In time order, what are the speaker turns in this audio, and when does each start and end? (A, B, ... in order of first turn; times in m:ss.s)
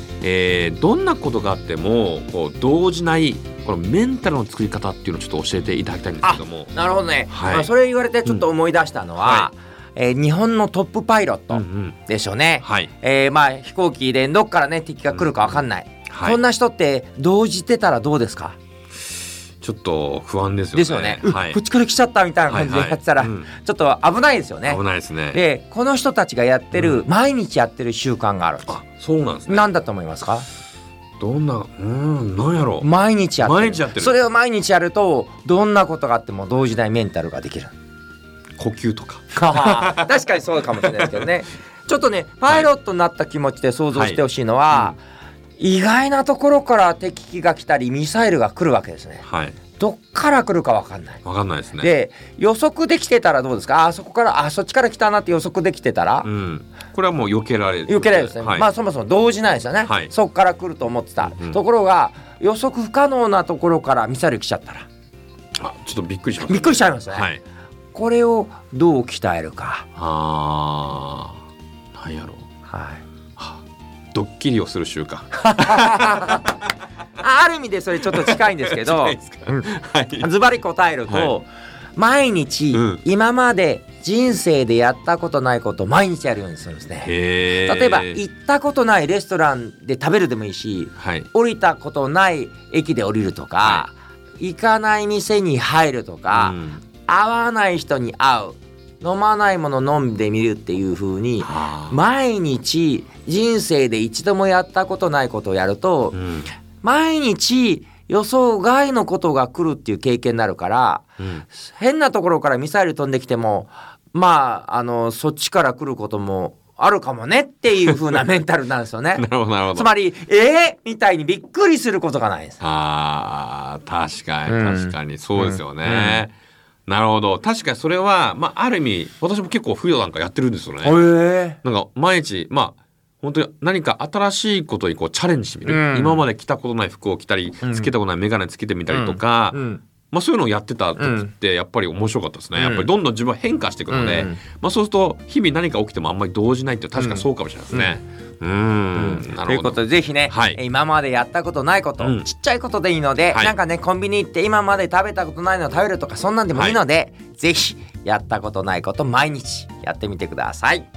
0:00.2-0:06.7 A
0:06.2-0:18.6 B
0:07.3-0:07.7 A
0:09.2-0:09.5 A
0:11.5-0:12.0 A
0:12.6-0:12.9 A
0:15.1-0:16.4 A
0:19.6-0:21.6 A
0:20.7-0:28.8 B
0:22.5-0:23.5 A
0:24.6-0:25.4 A
0:26.7-0:27.0 A
0:28.7-0:29.7 A
0:29.5-0:30.4 B
0:31.2-0:32.9 A
0:32.8-0:37.7 B
0:33.4-0:34.1 A
0:38.6-0:40.1 A
0:39.3-0:45.0 B
0:40.9-0:41.2 A
0:43.9-0:44.2 A
0:45.6-0:49.2 B
0:49.2-0:49.6 A
0:49.8-0:51.2 B
0:51.2-0:51.9 A
0:51.8-0:56.3 B
0:56.2-0:58.7 A
0:57.9-1:04.9 B
0:59.8-1:00.1 A
1:01.2-1:01.6 A
1:05.6-1:07.4 A
1:06.4-1:07.3 B
1:07.9-1:09.8 B
1:10.0-1:11.4 A
1:11.9-1:12.4 A
1:12.7-1:13.0 B
1:14.1-1:16.5 A
1:15.4-1:16.5 B
1:17.2-1:19.6 B
1:18.1-1:20.3 A
1:20.2-1:46.2 B
1:22.7-1:23.0 A
1:27.0-1:28.2 A
1:31.0-1:31.3 A
1:36.3-1:36.8 A
1:41.4-1:42.0 A
1:46.1-1:46.5 A
1:46.8-2:02.6 B
1:51.2-1:51.4 A
1:59.2-1:59.9 A
2:02.6-2:06.3 A
2:04.5-2:06.2 B
2:06.9-2:11.0 A
2:10.8-2:11.6 B
2:11.6-2:19.6 A
2:15.6-2:16.2 B
2:17.6-2:17.9 B
2:18.9-2:19.8 B
2:20.1-2:30.6 A
2:21.0-2:21.3 B
2:22.6-2:22.9 B
2:23.9-2:24.4 B
2:27.0-2:28.0 B
2:28.9-2:40.9 B
2:32.0-2:32.3 A